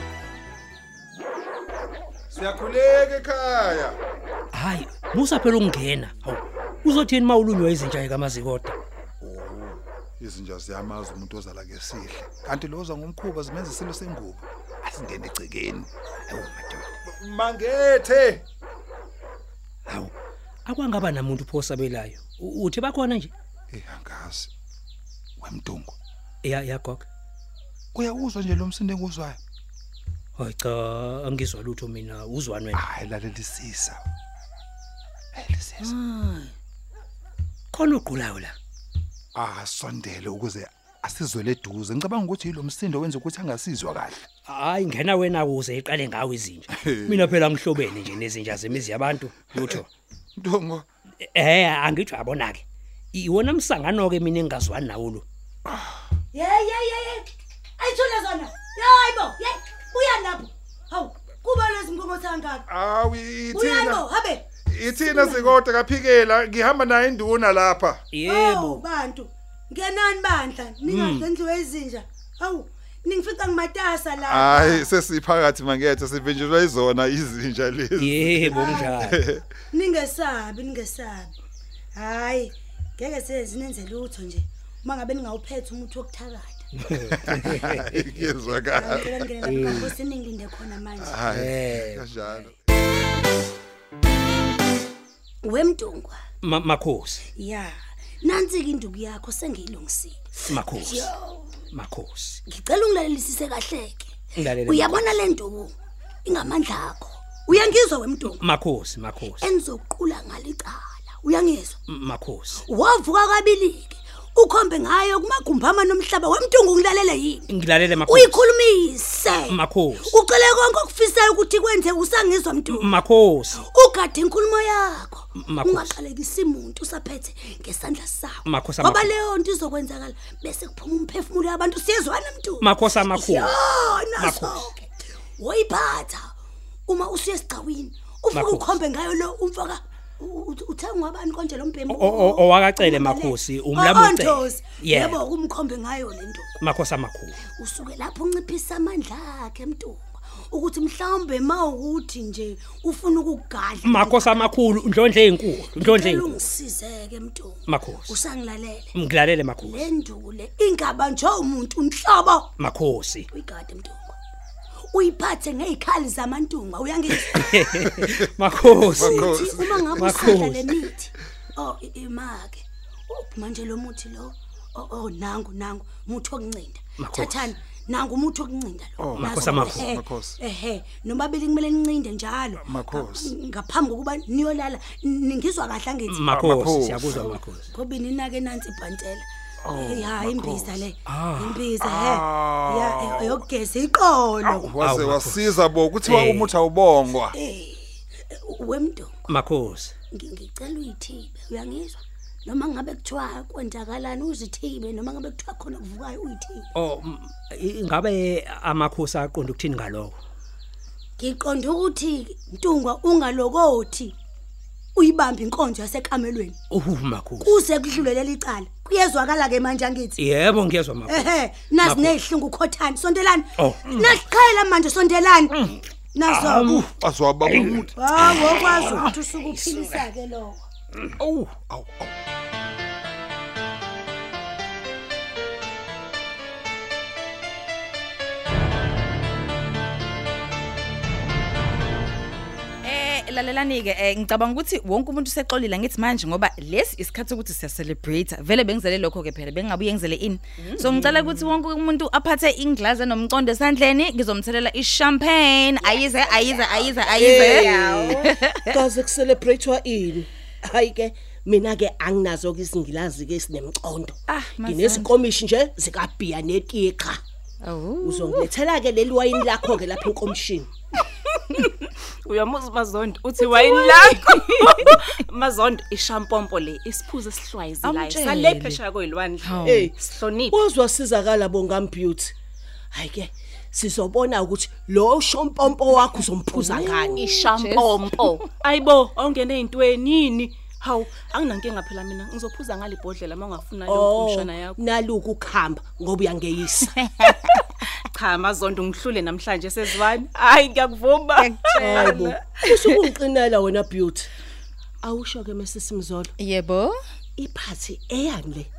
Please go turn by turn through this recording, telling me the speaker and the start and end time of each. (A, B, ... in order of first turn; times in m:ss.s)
0:02.3-0:04.0 A
0:04.5-0:08.8 B
0:09.2-0:15.9 A
0:16.2-0:16.9 B
0:17.1-0:18.4 A
0:19.9-0:20.1 B
0:20.7-0:23.3 B
0:23.7-0:24.5 A
0:25.4-0:26.0 A
0:26.4-0:27.0 B
0:27.9-0:29.4 A
0:30.4-0:32.8 B
0:32.7-0:34.0 A
0:35.3-0:36.0 A
0:35.8-0:36.3 B
0:37.7-0:38.6 B
0:39.3-0:44.2 A
0:44.4-0:49.9 B
0:46.7-0:47.4 A
0:49.5-0:49.8 A
0:50.4-0:50.9 A
0:51.2-0:55.2 B
0:55.7-0:56.0 A
0:56.3-0:57.2 C
0:57.8-1:02.6 C
1:02.7-1:04.0 A
1:03.5-1:05.6 C
1:04.6-1:08.0 A
1:08.1-1:08.8 B
1:08.2-1:14.9 C
1:10.8-1:11.3 B
1:14.2-1:19.4 A
1:18.0-1:19.2 B
1:18.5-1:19.0 C
1:19.7-1:21.3 C
1:22.0-1:26.7 C
1:26.8-1:28.0 B
1:27.0-1:30.0 A
1:28.6-1:31.3 C
1:29.4-1:29.9 B
1:31.0-1:32.5 A
1:31.3-1:32.0 B
1:35.4-1:36.2 C
1:36.4-1:37.2 B
1:37.4-1:41.6 C
1:40.5-1:41.1 B
1:41.7-1:42.4 B
1:42.5-1:45.7 C
1:44.4-1:45.1 B
1:46.2-1:48.4 C
1:48.3-1:49.5 B
1:49.4-1:51.8 C
1:51.9-1:52.6 B
1:52.6-1:57.5 C
1:57.5-1:58.4 B
1:58.0-2:03.0 C
1:59.5-2:00.2 B
2:02.7-2:03.6 B
2:03.5-2:14.8 C
2:05.4-2:06.0 B
2:08.5-2:09.1 B
2:12.6-2:13.6 B
2:14.2-2:14.7 B
2:15.4-2:16.3 C
2:16.9-2:26.6 C
2:18.3-2:18.8 B
2:21.9-2:25.2 B
2:26.6-2:27.4 B
2:27.4-2:34.5 C
2:33.8-2:36.4 B
2:35.8-2:38.9 C
2:37.7-2:38.2 B
2:38.9-2:39.9 B
2:39.6-2:42.5 C
2:42.6-2:43.3 B
2:43.3-2:44.2 C
2:44.9-2:48.2 C
2:47.1-2:49.4 B
2:47.5-2:50.5 A
2:49.0-3:06.2 C
2:49.9-2:50.8 B
2:57.0-2:57.6 B
2:59.0-3:00.4 A
2:59.1-2:59.8 B
3:02.6-3:03.3 A
3:06.1-3:07.7 B
3:06.2-3:07.4 A
3:07.1-3:14.7 C
3:09.6-3:10.9 A
3:11.1-3:11.7 B
3:11.8-3:13.5 A
3:14.4-3:17.3 A
3:14.7-3:16.5 B
3:17.3-3:19.3 C
3:19.3-3:19.9 B
3:20.1-3:26.7 C
3:26.8-3:30.2 B
3:31.2-3:34.1 C
3:34.9-3:36.6 C
3:36.7-3:37.6 B
3:37.4-3:40.2 C
3:40.2-3:42.2 B
3:41.1-3:45.6 C
3:43.6-3:44.3 B
3:45.5-3:50.1 B
3:46.1-3:46.8 C
3:46.6-3:49.1 A
3:47.9-3:50.6 C
3:51.2-3:52.1 A
4:02.8-4:18.8 D
4:10.7-4:11.1 E
4:16.4-4:18.0 E
4:17.0-4:27.2 F
4:24.3-4:25.2 D
4:27.6-4:28.5 D
4:28.0-4:30.7 F
4:31.9-4:40.6 E
4:37.8-4:38.8 D
4:39.4-4:39.9 D
4:39.6-4:42.3 F
4:42.9-4:47.4 F
4:46.8-4:48.1 D
4:47.2-4:54.8 E
4:53.9-4:57.0 F
4:57.0-4:57.3 D
4:58.1-5:02.4 E
5:01.4-5:02.2 D
5:01.8-5:04.3 F
5:05.0-5:06.3 F
5:06.4-5:07.0 D
5:07.4-5:08.7 F